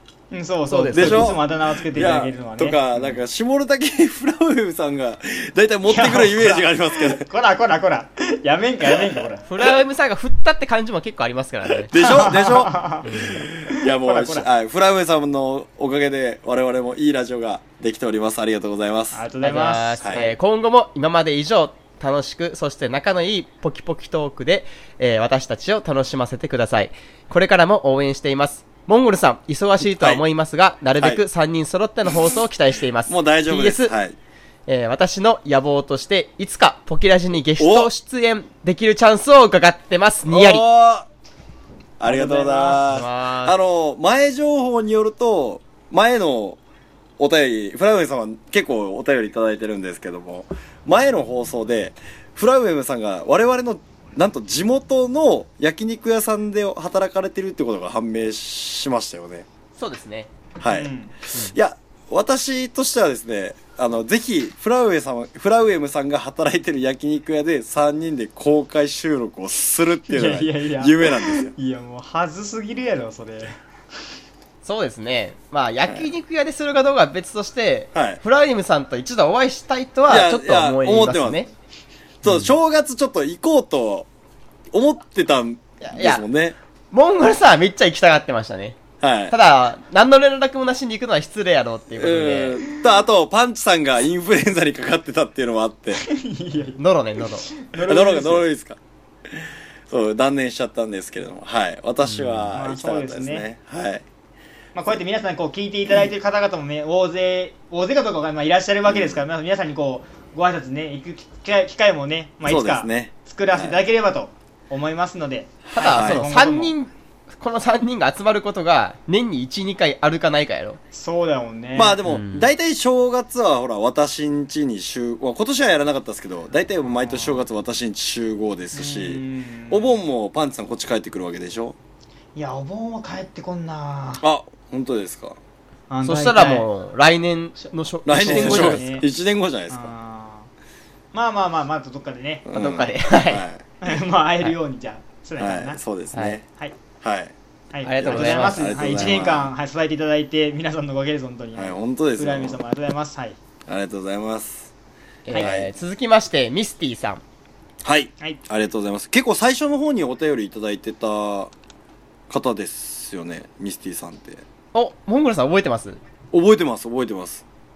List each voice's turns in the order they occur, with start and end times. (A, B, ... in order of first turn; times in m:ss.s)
0:00.3-0:02.8 A
0:00.7-0:01.3 B
0:00.9-0:07.3 C
0:05.8-0:09.4 A
0:09.4-0:12.3 B
0:11.9-0:19.2 C
0:12.0-0:14.5 A
0:13.0-0:13.4 B
0:19.1-0:20.3 A
0:19.4-0:33.9 B
0:20.0-0:20.3 C
0:29.8-0:30.2 C
0:31.0-0:31.2 C
0:33.1-0:34.2 C
0:34.7-0:40.6 B
0:37.6-0:37.9 C
0:40.2-0:41.1 C
0:42.0-0:46.6 C
0:42.0-0:42.8 A
0:42.9-0:43.5 B
0:47.2-0:59.4 C
0:59.8-1:00.3 B
1:00.6-1:11.5 C
1:00.7-1:01.1 A
1:10.1-1:13.6 A
1:14.6-1:21.5 B
1:17.9-1:18.2 C
1:20.1-1:21.5 C
1:22.2-1:24.1 C
1:24.7-1:26.6 C
1:25.8-1:26.2 B
1:26.9-1:28.8 B
1:29.0-1:29.3 C
1:29.3-1:32.6 B
1:31.9-1:36.0 C
1:36.0-1:36.8 A
1:36.8-1:37.5 B
1:37.5-1:38.5 A
1:37.8-1:38.8 C
1:39.3-1:44.0 C
1:42.0-1:42.5 B
1:42.5-1:43.4 A
1:44.8-1:56.7 A
1:48.9-1:49.2 C
1:52.4-1:53.8 C
1:55.7-1:56.2 C
1:55.7-2:00.8 B
2:00.9-2:02.0 A
2:01.8-2:11.8 C
2:02.0-2:02.5 B
2:06.9-2:07.4 A
2:08.7-2:09.9 A
2:12.3-2:14.2 A
2:14.2-2:15.4 C
2:15.9-2:16.6 A
2:16.0-2:19.0 B
2:18.1-2:19.9 C
2:18.1-2:19.1 A
2:19.7-2:20.5 A
2:21.1-2:22.5 A
2:22.4-2:23.6 C
2:22.5-2:23.4 B
2:23.8-2:25.8 A
2:25.4-2:26.4 C
2:27.0-2:27.3 C
2:27.7-2:33.4 A
2:27.8-2:29.1 B
2:28.0-2:29.5 C
2:31.6-2:32.6 C
2:33.7-2:34.7 C
2:35.2-2:37.2 B
2:35.3-2:35.7 C
2:37.8-2:41.5 C
2:42.3-2:44.4 C
2:44.7-2:46.0 B
2:46.3-2:47.4 C